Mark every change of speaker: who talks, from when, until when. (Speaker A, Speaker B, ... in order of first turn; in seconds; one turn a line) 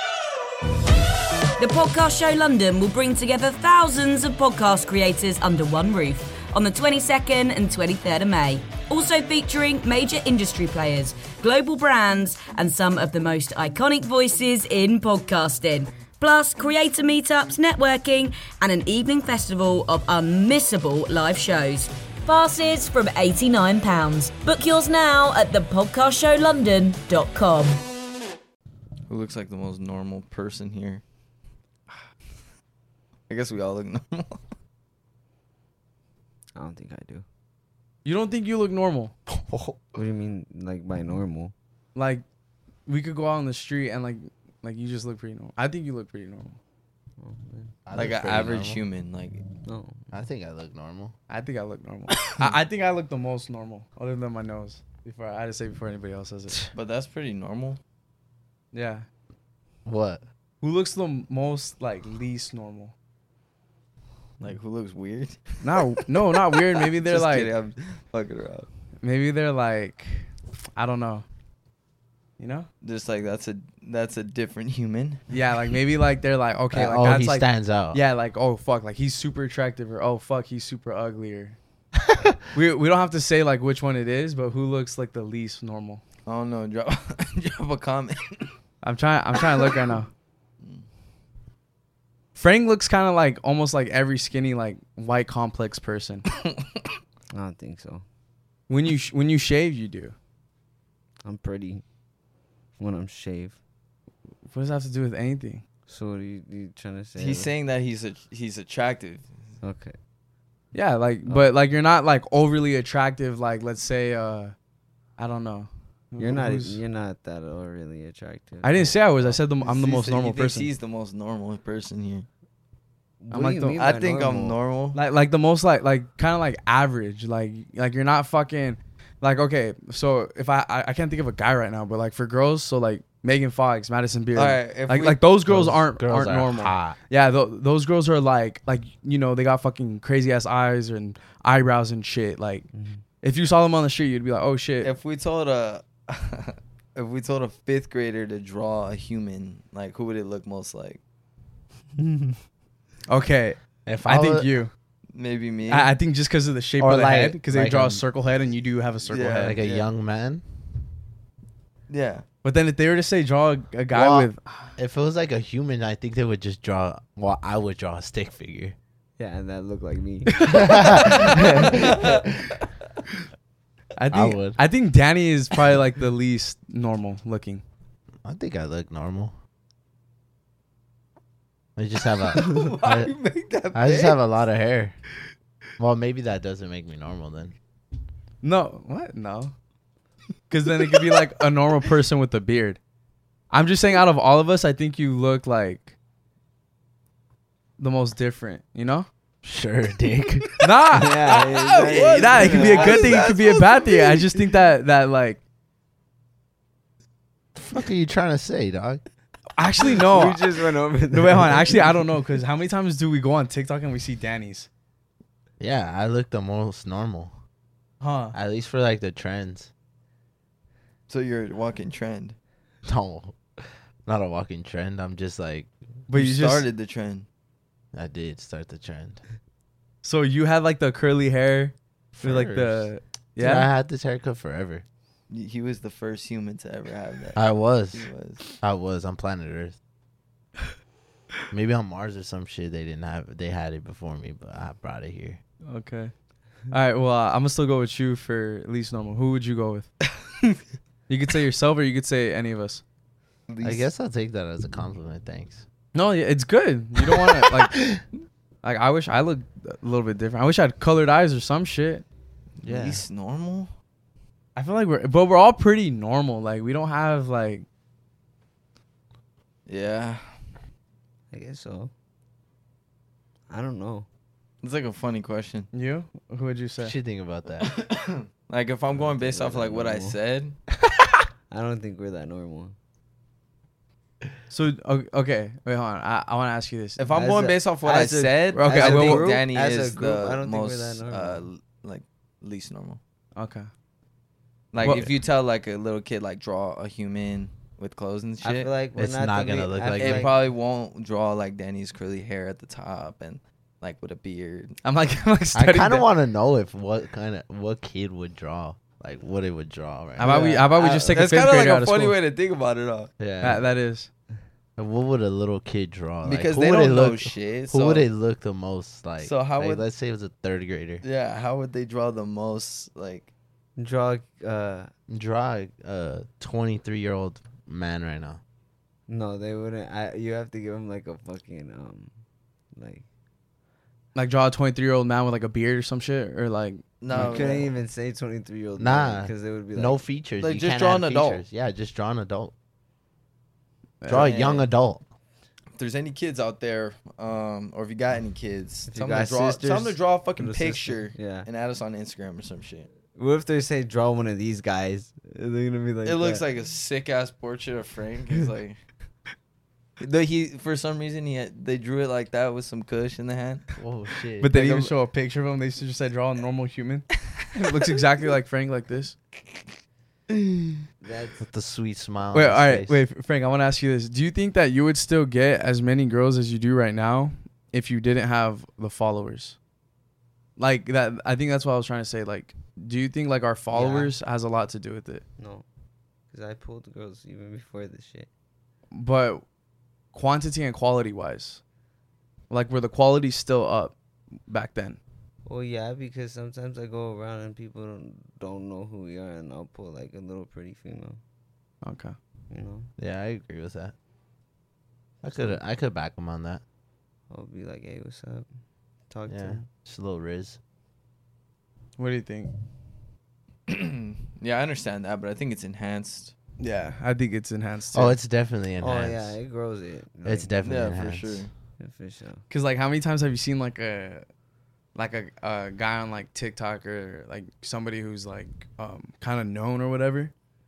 Speaker A: 1.6-27.8
Speaker B: 29.1-31.0
Speaker B: 33.3-34.4
Speaker C: 36.5-37.2
Speaker D: 38.0-39.1
Speaker C: 40.0-41.5
Speaker D: 41.9-42.2
Speaker D: 42.9-46.6
Speaker C: 47.2-47.7
Speaker E: 47.9-48.8
Speaker B: 47.9-49.4
Speaker C: 49.6-50.0
Speaker E: 50.1-51.1
Speaker D: 51.3-56.6
Speaker B: 56.7-57.8
Speaker D: 58.7-59.0
Speaker E: 59.8-60.2
Speaker D: 60.6-62.9
Speaker B: 64.4-65.8
Speaker D: 65.6-67.5
Speaker B: 66.5-68.7
Speaker D: 69.0-71.2
Speaker D: 72.4-72.7
Speaker B: 72.8-75.2
Speaker D: 75.3-81.5
Speaker E: 76.7-78.0
Speaker E: 82.1-82.3
Speaker D: 82.5-86.0
Speaker B: 86.2-88.5
Speaker D: 88.8-90.1
Speaker D: 92.3-96.2
Speaker C: 97.3-98.0
Speaker D: 98.7-100.1
Speaker C: 101.2-101.8
Speaker C: 102.8-103.6
Speaker D: 104.5-105.6
Speaker C: 105.9-107.5
Speaker B: 107.2-109.3
Speaker C: 109.6-110.0
Speaker D: 110.7-114.5
Speaker D: 115.2-116.8
Speaker C: 116.2-119.4
Speaker D: 118.6-120.7
Speaker B: 119.6-122.3
Speaker C: 123.2-124.6
Speaker D: 123.3-123.9
Speaker B: 123.8-125.0
Speaker D: 124.9-142.7
Speaker B: 134.3-135.2
Speaker E: 135.4-137.0
Speaker C: 142.7-143.0
Speaker D: 143.2-144.9
Speaker B: 144.8-151.0
Speaker C: 152.0-152.3
Speaker D: 153.1-154.7
Speaker E: 153.8-154.5
Speaker B: 155.1-155.9
Speaker D: 155.7-159.6
Speaker E: 156.8-158.0
Speaker B: 159.1-159.9
Speaker E: 159.3-160.4
Speaker B: 161.9-162.2
Speaker D: 162.4-164.7
Speaker E: 163.9-168.8
Speaker C: 169.2-172.3
Speaker D: 170.4-171.4
Speaker E: 170.5-171.9
Speaker B: 171.7-172.2
Speaker D: 174.0-177.6
Speaker E: 174.1-174.6
Speaker E: 178.2-179.3
Speaker E: 181.8-183.1
Speaker B: 182.3-184.2
Speaker E: 183.7-185.0
Speaker E: 185.8-187.5
Speaker D: 188.4-189.5
Speaker D: 190.5-192.8
Speaker D: 193.5-195.9
Speaker D: 197.8-199.1
Speaker E: 199.4-200.5
Speaker D: 200.6-205.4
Speaker C: 200.9-203.2
Speaker B: 201.2-204.4
Speaker E: 207.5-209.0
Speaker D: 209.6-210.4
Speaker C: 209.9-212.0
Speaker D: 211.1-214.7
Speaker E: 215.6-217.3
Speaker D: 218.0-218.3
Speaker E: 218.3-219.7
Speaker B: 221.1-222.3
Speaker E: 222.8-225.7
Speaker D: 226.1-226.7
Speaker B: 226.1-227.3
Speaker E: 227.9-229.2
Speaker D: 230.0-233.7
Speaker E: 232.1-234.8
Speaker B: 235.3-238.4
Speaker E: 237.3-238.1
Speaker E: 238.6-239.8
Speaker E: 241.5-245.4
Speaker D: 245.7-246.1
Speaker D: 246.7-249.9
Speaker D: 251.1-252.8
Speaker B: 253.5-253.9
Speaker E: 253.6-255.6
Speaker D: 255.9-257.8
Speaker D: 258.6-262.0
Speaker B: 262.6-263.7
Speaker E: 262.6-263.0
Speaker D: 264.6-267.6
Speaker B: 269.7-270.3
Speaker C: 271.3-271.9
Speaker C: 273.5-274.1
Speaker B: 274.6-275.7
Speaker D: 275.7-276.9
Speaker E: 276.8-277.7
Speaker B: 277.6-280.6
Speaker C: 279.0-280.2
Speaker C: 281.5-282.7
Speaker D: 284.5-287.0
Speaker B: 287.0-293.0
Speaker C: 287.1-291.4
Speaker D: 288.5-289.3
Speaker D: 293.3-293.7
Speaker B: 294.7-298.7
Speaker D: 294.8-295.1
Speaker C: 298.4-300.3
Speaker E: 298.9-300.3
Speaker B: 300.0-304.8
Speaker D: 304.8-306.1
Speaker E: 305.5-310.3
Speaker D: 310.2-312.1
Speaker B: 310.2-313.1
Speaker C: 310.3-311.2
Speaker E: 313.2-313.6
Speaker D: 313.4-314.1
Speaker E: 314.8-321.0
Speaker B: 316.2-318.1
Speaker B: 319.2-319.8
Speaker B: 321.0-323.3
Speaker C: 323.8-324.9
Speaker E: 325.1-328.4
Speaker C: 329.1-332.1
Speaker C: 332.7-333.0
Speaker D: 334.1-336.8
Speaker B: 337.0-337.7
Speaker E: 337.1-337.6
Speaker C: 337.1-340.0
Speaker E: 338.8-342.5
Speaker B: 340.4-341.4
Speaker D: 344.0-344.3
Speaker E: 344.1-345.1
Speaker B: 344.2-344.6
Speaker B: 345.8-352.9
Speaker C: 348.9-351.5
Speaker C: 353.1-356.4
Speaker B: 356.0-358.8
Speaker B: 360.0-363.7
Speaker E: 363.8-364.5
Speaker D: 364.4-369.2
Speaker B: 364.5-364.9
Speaker C: 371.0-371.4
Speaker E: 371.4-373.0
Speaker D: 372.3-379.6
Speaker D: 380.6-385.2
Speaker C: 383.7-384.1
Speaker C: 385.4-385.6
Speaker C: 386.3-388.3
Speaker D: 388.9-389.4
Speaker D: 390.1-391.6
Speaker D: 392.5-393.9
Speaker D: 394.5-395.0
Speaker C: 395.4-401.2
Speaker D: 401.8-402.1
Speaker C: 402.5-402.9
Speaker E: 403.0-403.9
Speaker E: 405.2-406.6
Speaker C: 407.3-408.5
Speaker C: 409.1-409.6
Speaker E: 409.3-410.6
Speaker D: 412.0-412.5
Speaker B: 413.7-416.3
Speaker D: 416.6-418.2
Speaker E: 417.9-419.4
Speaker C: 418.8-420.5
Speaker E: 420.2-421.5
Speaker B: 420.6-421.5
Speaker C: 421.8-422.4
Speaker D: 422.5-424.2
Speaker D: 424.9-430.3